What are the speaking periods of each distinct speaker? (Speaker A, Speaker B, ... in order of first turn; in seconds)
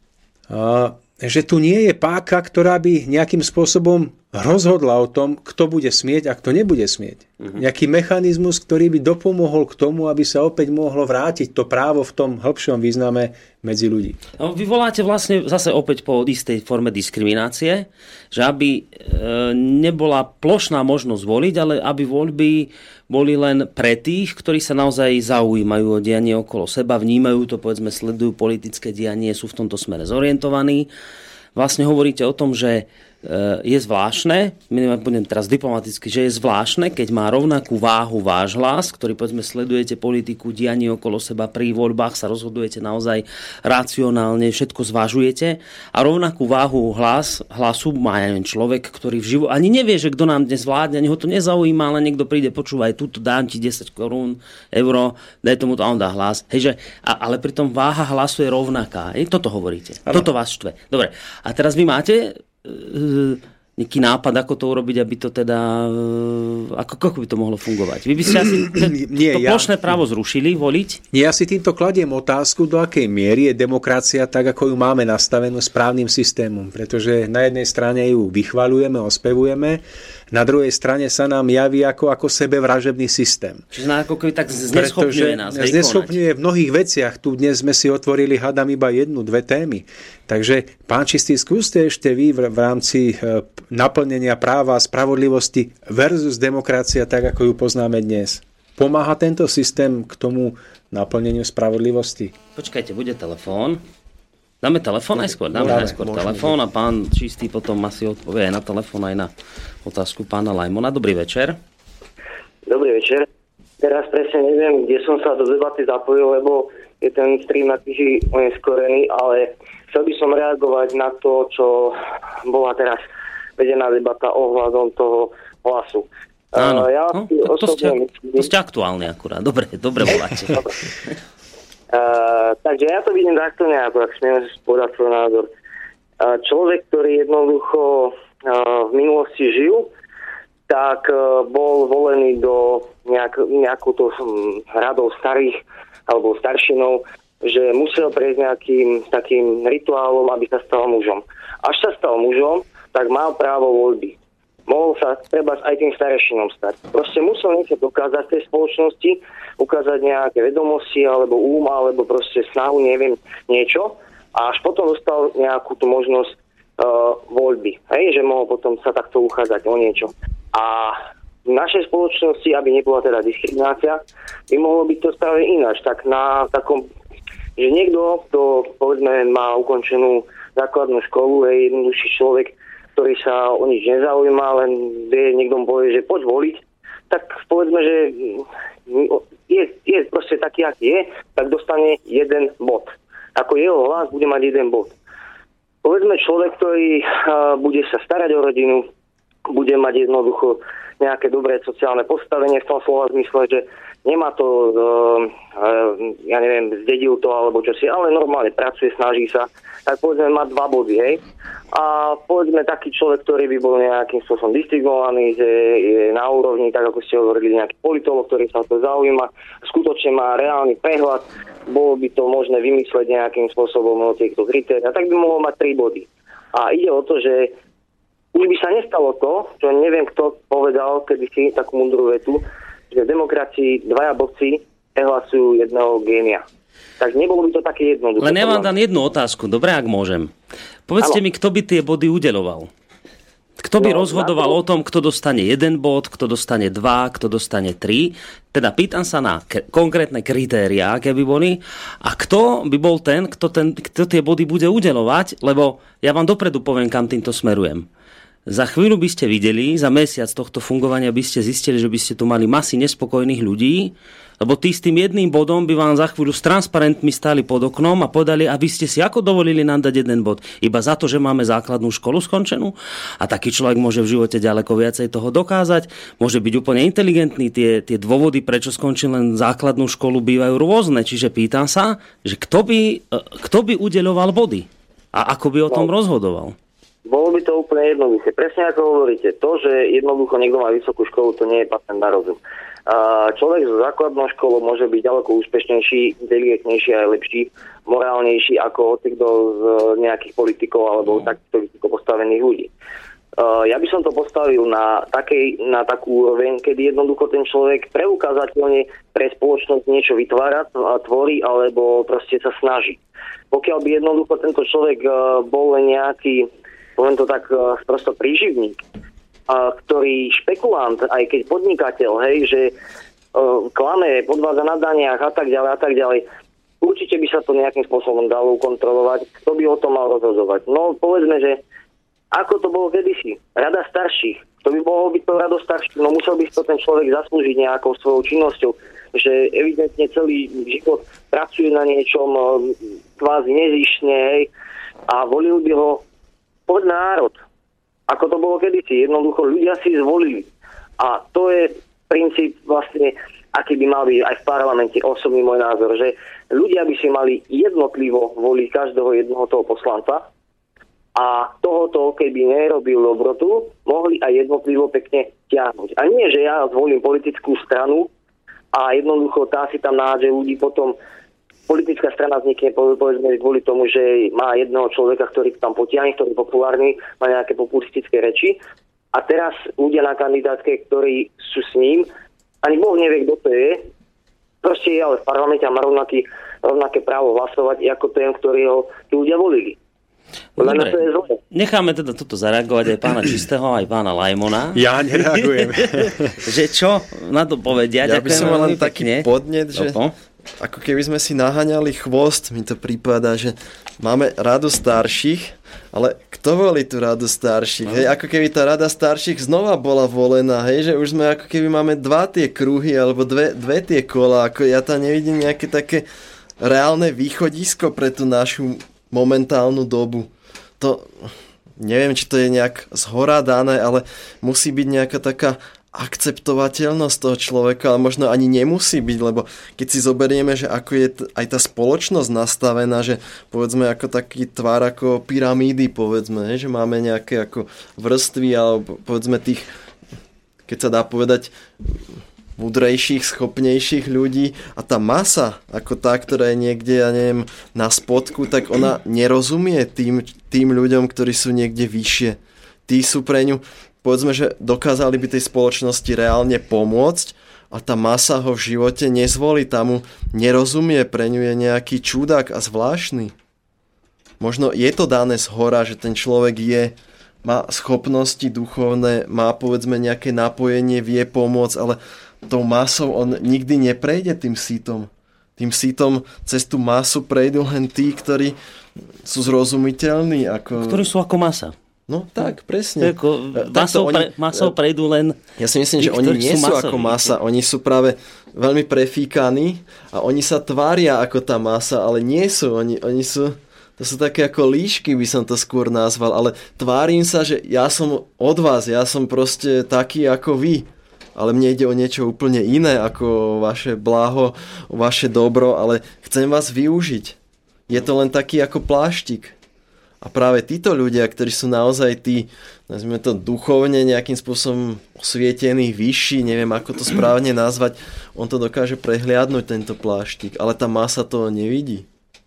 Speaker A: 0.5-14.2, 68.6-69.7, 71.1-83.6, 84.7-102.3, 105.6-106.0, 394.7-396.4
Speaker B: 14.4-30.9, 31.6-71.0, 83.7-86.2, 102.6-103.8, 104.6-109.3, 109.8-111.6, 126.6-130.7, 238.2-240.3, 240.9-242.7, 243.6-257.9, 258.5-286.6, 390.6-400.1, 480.8-481.7, 483.0-485.4, 486.0-487.3
Speaker C: 105.5-106.5, 398.0-400.0, 400.6-416.1, 416.6-439.7, 440.7-442.1, 442.6-463.3, 464.4-478.6, 479.2-481.1, 482.1-484.7, 485.6-507.4, 507.9-509.6, 510.2-522.1
Speaker D: 112.7-113.3, 113.8-123.0, 123.6-128.5, 131.9-135.5, 136.2-139.9, 140.7-154.2, 154.7-176.9, 177.6-194.9, 195.8-198.9, 199.5-227.5, 228.3-236.4, 237.0-238.7, 243.8-244.6, 287.1-302.7, 303.4-313.0, 313.5-318.8, 319.5-322.7, 323.3-326.2, 326.8-331.6, 332.3-344.5, 345.1-346.0, 346.7-347.4, 348.1-360.3, 361.1-368.1, 368.7-371.0, 371.7-378.6, 379.1-382.1, 382.6-383.9, 384.6-389.8, 390.6-391.4